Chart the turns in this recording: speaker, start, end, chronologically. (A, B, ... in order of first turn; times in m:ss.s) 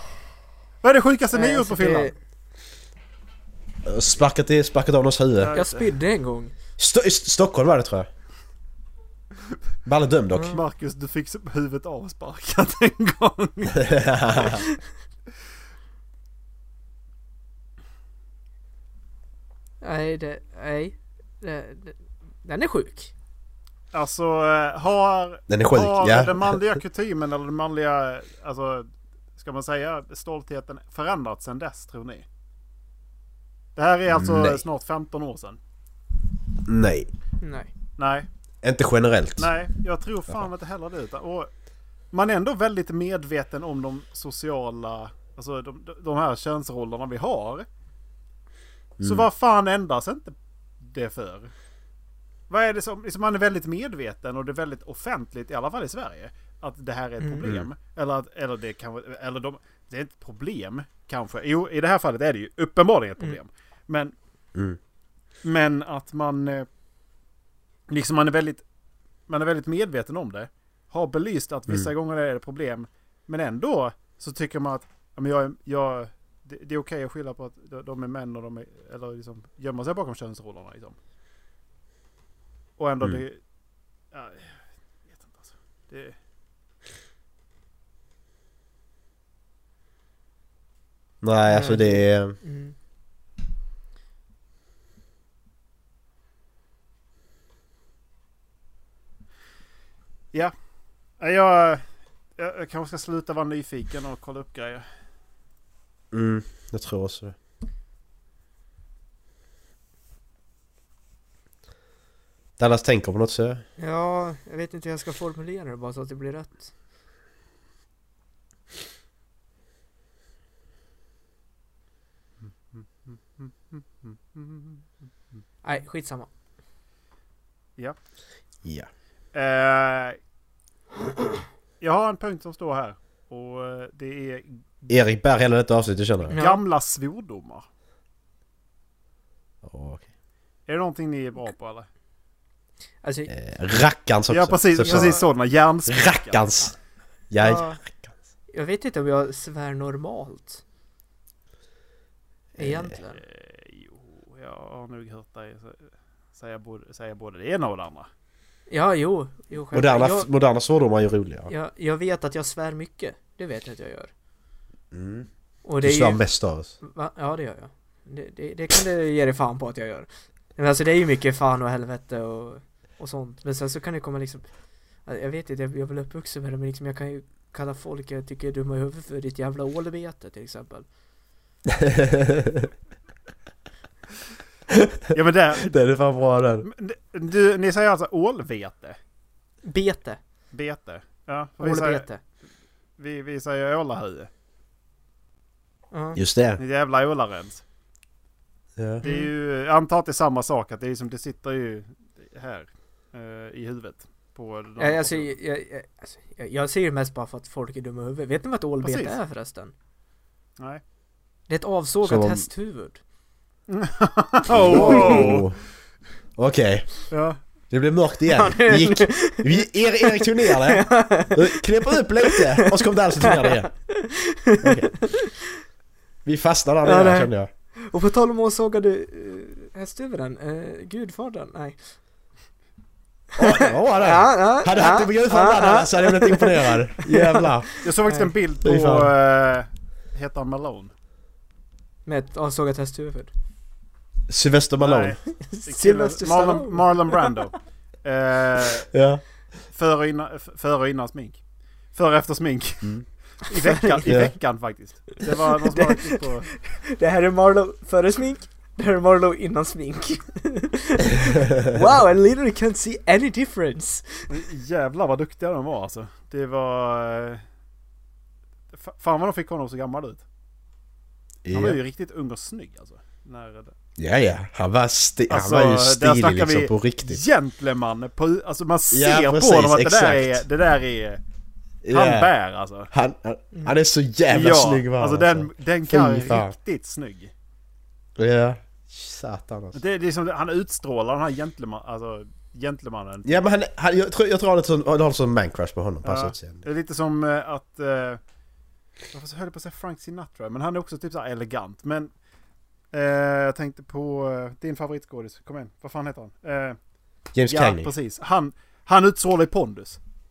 0:00.8-0:02.1 A
0:01.3-0:02.1 B
0:03.8-0:05.5 C
0:05.4-0:05.9 A
0:05.5-0:06.5 B
0:06.8-0:08.1 C
0:09.8-0:10.6 C
0:10.3-0:10.6 B
0:10.5-0:14.6 A
0:13.8-0:14.6 C
0:19.8-0:23.1 B
0:23.9-0:32.2 A
0:25.5-0:26.6 C
0:33.8-0:35.6 A
0:34.1-0:34.6 C
0:36.6-0:37.1 C
0:37.4-0:37.7 B
0:38.0-0:38.3 A
0:38.6-0:39.5 C
0:39.4-0:41.5 A
0:42.1-0:47.6 A
0:49.0-0:49.3 C
0:49.0-0:51.5 A
0:52.5-1:04.1 A
0:57.2-0:57.5 B
0:57.4-0:57.7 C
1:05.4-1:06.7 A
1:07.9-1:08.6 A
1:09.3-1:21.0 A
1:22.8-1:23.4 A
1:24.1-1:26.2 A
1:31.2-1:32.4 C
1:31.5-1:32.7 B
1:41.2-1:41.8 A
1:42.4-1:44.8 A
1:46.1-1:47.3 C
1:52.6-1:53.6 C
1:53.8-1:56.7 B
2:02.7-2:04.8 A
2:05.6-2:06.3 B
2:09.3-2:10.2 A
2:11.8-2:14.8 A
2:14.9-2:16.4 C
2:16.3-2:16.6 B
2:16.3-2:17.6 A
2:19.6-2:20.1 C
2:20.7-2:21.9 A
2:23.0-2:23.3 B
2:23.3-2:25.2 C
2:24.3-2:26.4 A
2:24.8-2:25.2 B
2:25.9-2:26.8 C
2:27.3-2:28.1 C
2:27.4-2:27.8 B
2:28.5-2:30.6 B
2:32.5-2:33.2 B
2:32.6-2:32.9 C
2:33.1-2:38.1 A
2:38.7-2:40.3 B
2:39.7-2:41.5 C
2:41.5-2:44.1 B
2:44.9-2:45.3 C
2:45.6-2:46.2 B
2:45.8-2:46.7 C
2:46.8-2:54.5 B
2:55.0-3:00.8 B
3:01.7-3:02.7 C
3:05.1-3:05.7 A
3:05.6-3:06.7 C
3:06.6-3:09.0 A
3:09.6-3:10.2 B
3:10.5-3:12.0 A
3:11.6-3:12.2 B
3:13.0-3:14.3 A
3:15.9-3:16.2 B
3:16.2-3:16.6 C
3:16.6-3:17.6 A
3:18.8-3:19.0 C
3:19.0-3:25.3 A
3:19.0-3:19.3 B
3:24.8-3:29.7 B
3:28.8-3:29.2 A
3:31.5-3:33.0 B
3:32.0-3:32.4 C
3:33.7-3:35.5 A
3:34.5-3:35.6 C
3:34.8-3:35.3 B
3:36.4-3:36.9 C
3:37.1-3:37.4 A
3:37.7-3:43.7 C
3:38.3-3:45.4 B
3:44.6-3:44.9 C
3:46.2-3:47.5 C
3:46.8-3:51.8 B
3:53.4-3:57.7 C
3:53.4-3:58.3 B
3:57.8-4:00.9 A
3:58.6-3:59.1 C
4:02.0-4:03.3 B
4:04.3-4:05.2 C
4:04.8-4:08.9 A
4:05.3-4:07.4 B
4:08.9-4:09.2 C
4:09.7-4:11.4 A
4:11.9-4:16.5 A
4:13.5-4:14.2 B
4:14.0-4:14.3 C
4:15.6-4:24.3 B
4:24.3-4:27.4 A
4:28.7-4:30.2 A
4:31.4-4:31.8 C
4:31.5-4:33.7 A
4:34.0-4:37.2 C
4:35.3-4:41.2 A
4:38.9-4:40.4 C
4:41.8-4:42.3 C
4:41.9-4:42.9 A
4:42.9-4:46.5 C
4:44.3-4:47.3 A
4:48.2-4:49.8 C
4:49.7-4:53.4 A
4:53.2-4:56.6 C
4:56.0-4:58.2 A
4:59.1-5:02.1 A
5:02.9-5:06.8 A
5:07.3-5:07.9 C
5:07.5-5:10.0 A